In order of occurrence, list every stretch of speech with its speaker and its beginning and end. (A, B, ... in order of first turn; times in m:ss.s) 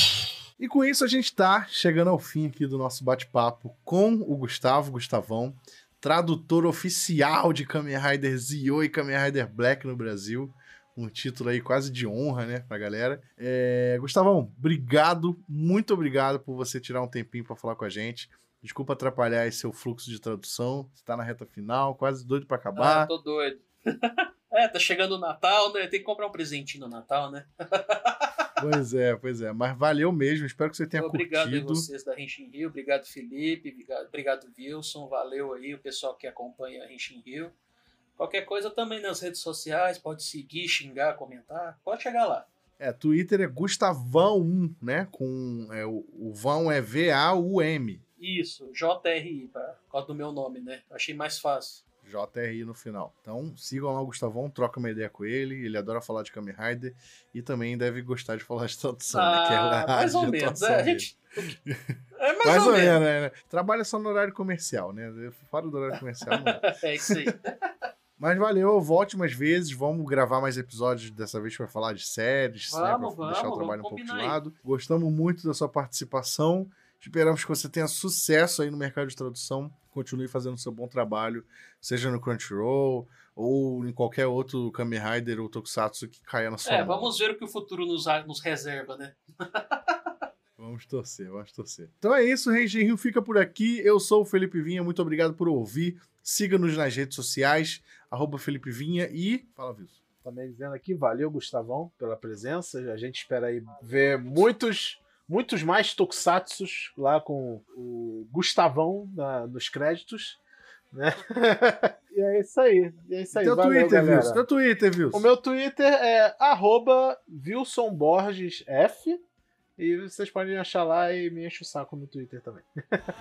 0:00.6-0:23.1 A
0:22.8-0:28.3 B
0:28.6-0:31.9 A
0:30.9-0:37.5 B
0:38.2-0:42.5 B
0:42.8-0:48.0 A
0:48.2-0:51.8 B
0:52.0-1:07.3 A
0:59.1-1:01.5 B
1:02.2-1:03.0 B
1:06.3-1:07.5 B
1:08.2-1:27.1 A
1:12.7-1:14.4 B
1:26.6-1:30.1 B
1:30.6-1:40.0 A
1:40.2-1:50.4 C
1:50.9-1:54.4 C
1:53.3-1:55.2 A
1:55.1-1:59.2 C
1:59.8-2:03.1 C